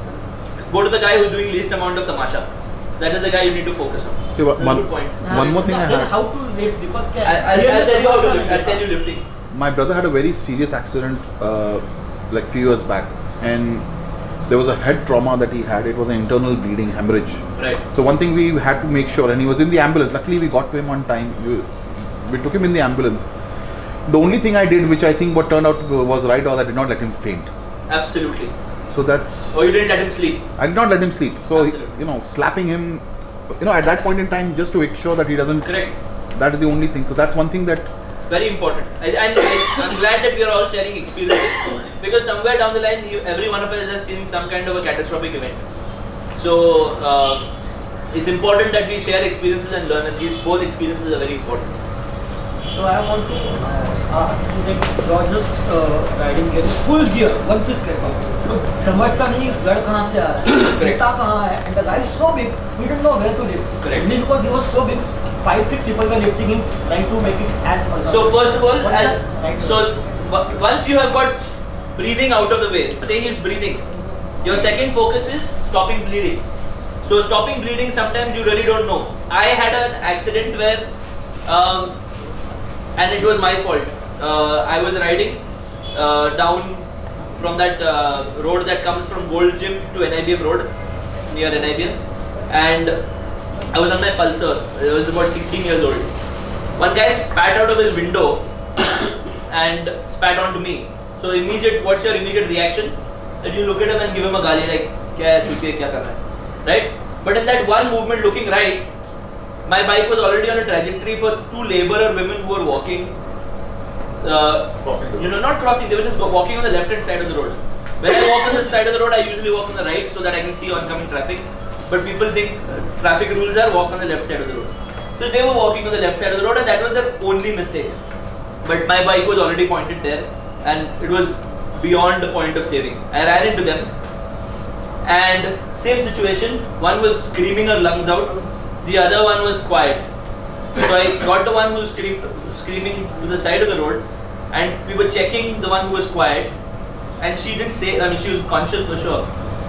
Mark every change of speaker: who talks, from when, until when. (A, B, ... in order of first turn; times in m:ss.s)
0:00.7-0:05.3 A
0:04.3-0:06.1 B
0:05.2-0:08.8 C
0:07.2-0:09.2 A
0:09.5-0:13.8 B
0:14.5-0:17.4 B
0:17.6-0:17.8 A
0:17.9-0:21.7 B
0:22.2-0:23.3 B
0:24.1-0:27.5 B
0:27.9-0:28.5 A
0:28.9-0:29.6 B
0:29.5-0:30.4 A
0:30.6-0:33.0 B
0:31.5-0:32.0 A
0:33.6-0:35.7 B
0:35.6-0:36.0 A
0:36.4-0:37.9 B
0:38.3-0:45.6 A
0:46.4-0:47.4 A
0:48.1-0:51.7 A
0:52.7-1:09.8 C
1:00.5-1:01.0 A
1:03.8-1:04.1 A
1:08.1-1:11.4 A
1:12.0-1:13.9 A
1:14.4-1:16.4 A
1:17.0-1:20.9 A
1:21.4-1:22.0 A
1:23.0-1:30.7 A
1:31.3-1:33.0 A
1:33.7-1:36.1 A
1:36.8-1:38.4 A
1:39.5-1:48.9 A
1:49.7-1:53.2 A
1:54.2-2:08.0 A
1:54.8-1:55.2 B
2:08.6-2:13.9 A
2:15.0-2:20.0 A
2:20.8-2:26.5 A
2:27.2-2:29.3 A